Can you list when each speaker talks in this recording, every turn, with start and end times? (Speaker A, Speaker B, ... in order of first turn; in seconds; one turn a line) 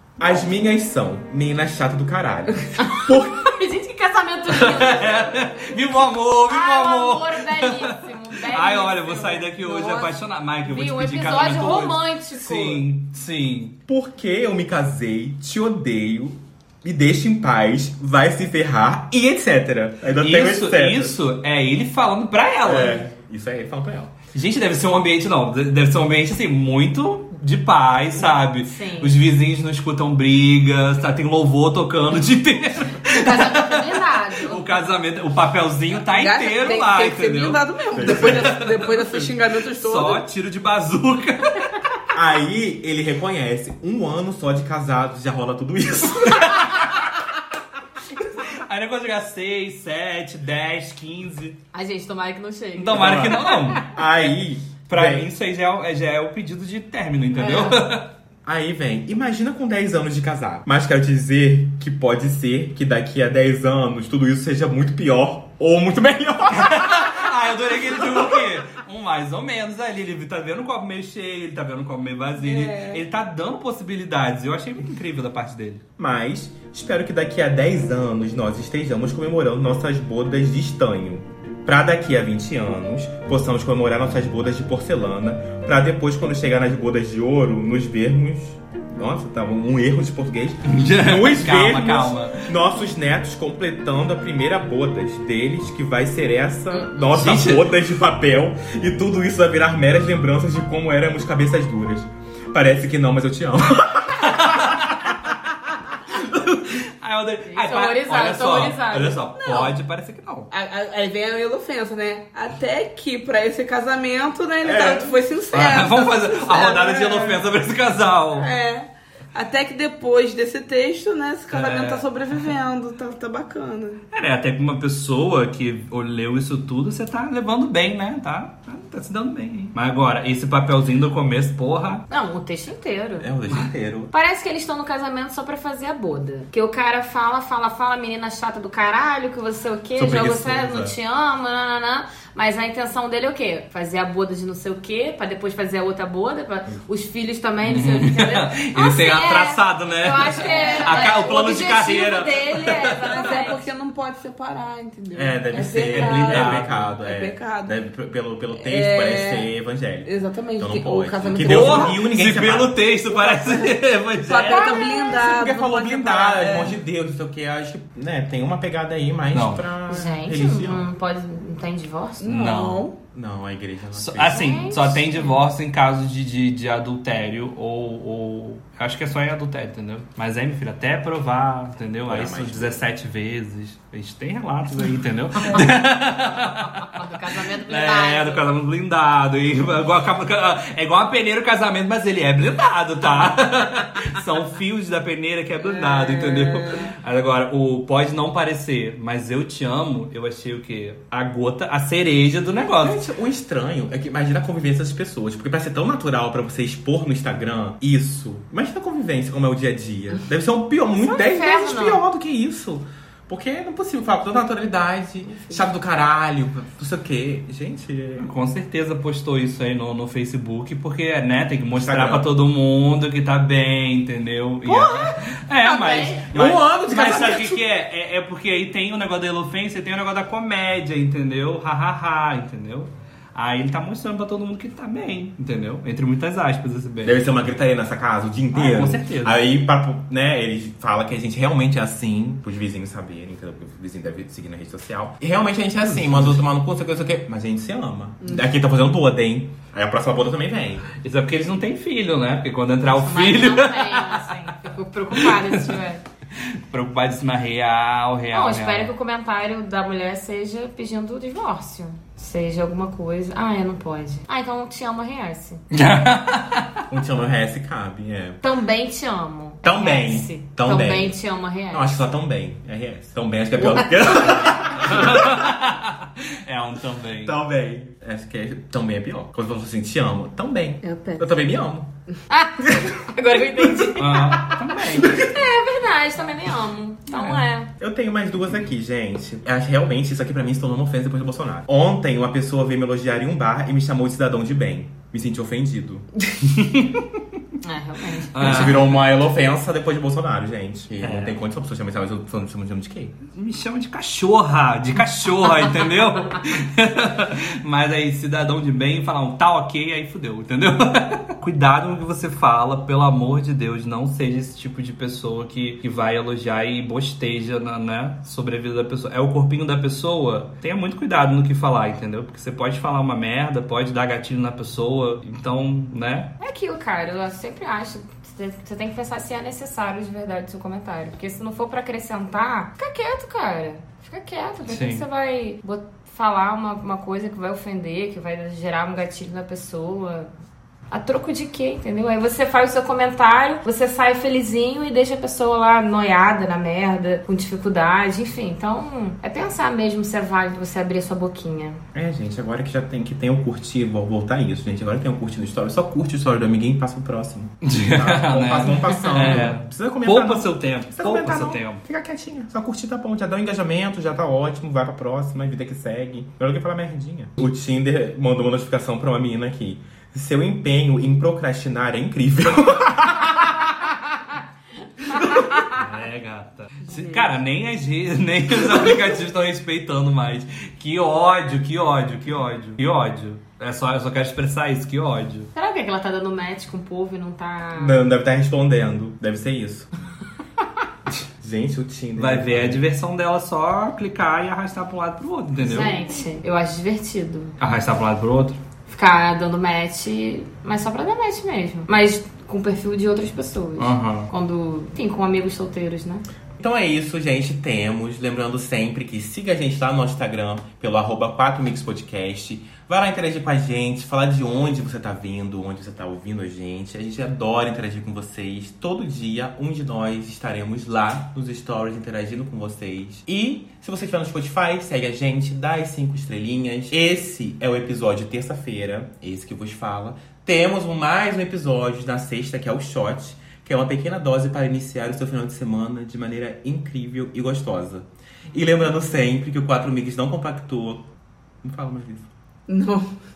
Speaker A: 0.2-3.5
Speaker B: 2.8-5.5
Speaker C: 4.5-13.8
Speaker B: 6.5-10.1
Speaker B: 10.7-12.8
Speaker A: 13.9-21.2
Speaker C: 20.2-23.0
Speaker A: 22.6-24.2
Speaker C: 24.3-41.9
Speaker B: 28.6-29.2
Speaker B: 33.1-34.7
Speaker D: 36.1-40.2
Speaker A: 37.9-38.6
Speaker A: 42.1-46.9
Speaker C: 46.6-46.9
Speaker C: 48.4-51.6
Speaker B: 51.7-54.0
Speaker C: 52.8-53.9
Speaker A: 52.9-55.3
Speaker C: 54.9-58.1
Speaker B: 57.4-57.8
Speaker A: 58.5-67.2
Speaker C: 66.5-75.8
Speaker D: 72.4-73.0
Speaker A: 76.0-105.0
Speaker C: 90.7-92.5
Speaker C: 97.0-97.7
Speaker C: 104.2-105.3
Speaker C: 106.1-110.5
Speaker B: 107.5-109.4
Speaker D: 109.4-109.7
Speaker D: 110.5-117.5
Speaker A: 114.6-115.2
Speaker C: 115.5-118.5
Speaker D: 118.3-124.0
Speaker C: 121.5-122.4
Speaker C: 124.1-132.1
Speaker B: 132.1-133.3
Speaker A: 133.2-134.1
Speaker B: 134.1-153.7
Speaker A: 140.0-140.9
Speaker C: 147.7-153.3
Speaker D: 153.1-157.8
Speaker A: 155.1-162.8
Speaker C: 155.7-156.8
Speaker D: 158.5-159.5
Speaker D: 160.1-162.0
Speaker C: 161.3-165.0
Speaker D: 163.1-166.8
Speaker B: 164.5-165.2
Speaker A: 165.0-170.9
Speaker C: 169.3-169.6
Speaker B: 169.9-172.3
Speaker D: 172.2-172.9
Speaker C: 172.3-172.9
Speaker A: 173.1-174.7
Speaker C: 173.9-187.1
Speaker B: 174.3-175.4
Speaker A: 182.1-182.8
Speaker B: 185.5-185.8
Speaker B: 186.4-188.5
Speaker C: 187.7-203.1
Speaker D: 195.6-196.9
Speaker A: 202.8-218.3
Speaker B: 211.0-212.0
Speaker C: 218.2-237.3
Speaker A: 221.7-222.2
Speaker B: 224.7-226.2
Speaker A: 226.3-227.6
Speaker A: 237.0-250.9
Speaker C: 238.5-239.4
Speaker C: 245.9-246.4
Speaker C: 251.0-254.3
Speaker B: 253.0-256.0
Speaker C: 255.1-255.8
Speaker C: 256.4-258.9
Speaker B: 258.3-265.6
Speaker C: 265.7-266.7
Speaker A: 266.9-268.4
Speaker B: 268.4-272.1
Speaker A: 269.6-271.2
Speaker A: 271.7-275.5
Speaker C: 274.7-277.4
Speaker A: 277.2-281.9
Speaker D: 280.8-281.3
Speaker B: 282.3-287.7
Speaker C: 284.0-285.3
Speaker A: 285.0-285.3
Speaker C: 287.1-287.4
Speaker A: 287.8-296.1
Speaker C: 296.6-297.0
Speaker B: 297.6-298.4
Speaker C: 298.3-299.0
Speaker A: 298.4-303.2
Speaker C: 301.0-301.4
Speaker C: 303.3-326.3
Speaker B: 326.4-340.3
Speaker C: 334.7-335.1
Speaker B: 340.9-351.8
Speaker A: 351.9-373.7
Speaker C: 357.6-361.8
Speaker C: 375.1-385.5
Speaker D: 376.9-377.4
Speaker B: 385.5-388.0
Speaker A: 387.8-389.9
Speaker A: 391.2-392.8
Speaker C: 392.2-396.0
Speaker B: 395.6-397.6
Speaker C: 397.6-398.6
Speaker B: 398.9-406.2
Speaker C: 403.8-404.3
Speaker A: 406.6-441.1
Speaker A: 441.6-442.3
Speaker D: 442.7-443.1